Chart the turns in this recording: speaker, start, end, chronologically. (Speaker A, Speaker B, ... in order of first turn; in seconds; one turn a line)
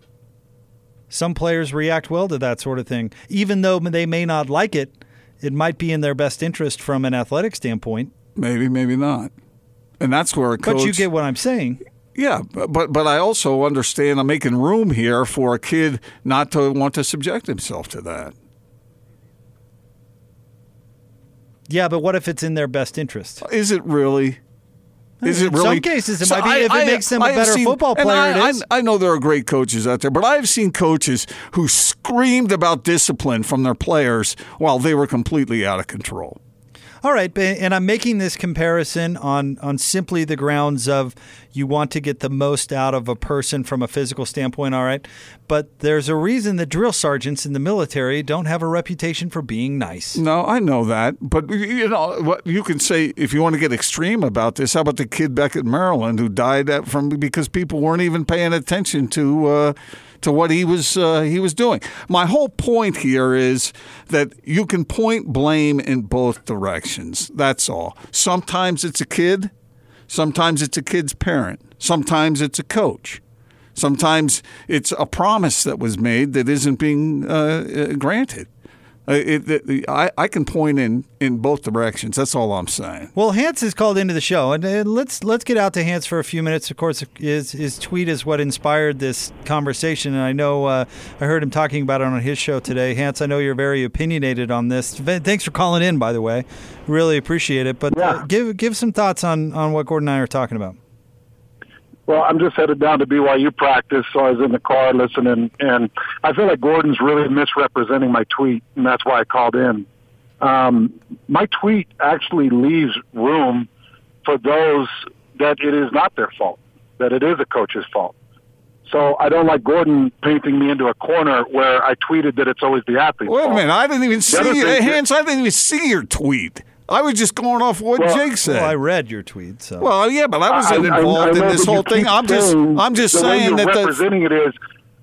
Speaker A: 1.1-8.1
Speaker B: 8.4-9.3
Speaker B: 10.0-11.1
Speaker A: 10.6-11.8
Speaker B: 12.2-18.3
Speaker A: 21.7-23.4
Speaker B: 23.4-24.4
Speaker A: 25.2-28.6
Speaker B: 25.2-36.4
Speaker A: 37.0-50.2
Speaker B: 50.2-69.5
Speaker B: 70.1-73.2
Speaker B: 73.8-78.5
Speaker B: 79.1-83.1
Speaker A: 83.2-100.8
Speaker C: 97.9-98.2
Speaker C: 102.1-109.9
Speaker C: 110.4-113.7
Speaker C: 114.2-118.2
Speaker C: 118.9-123.6
Speaker B: 123.3-128.8
Speaker C: 124.3-125.0
Speaker C: 128.0-128.2
Speaker A: 128.4-129.9
Speaker B: 129.8-134.0
Speaker C: 130.5-134.6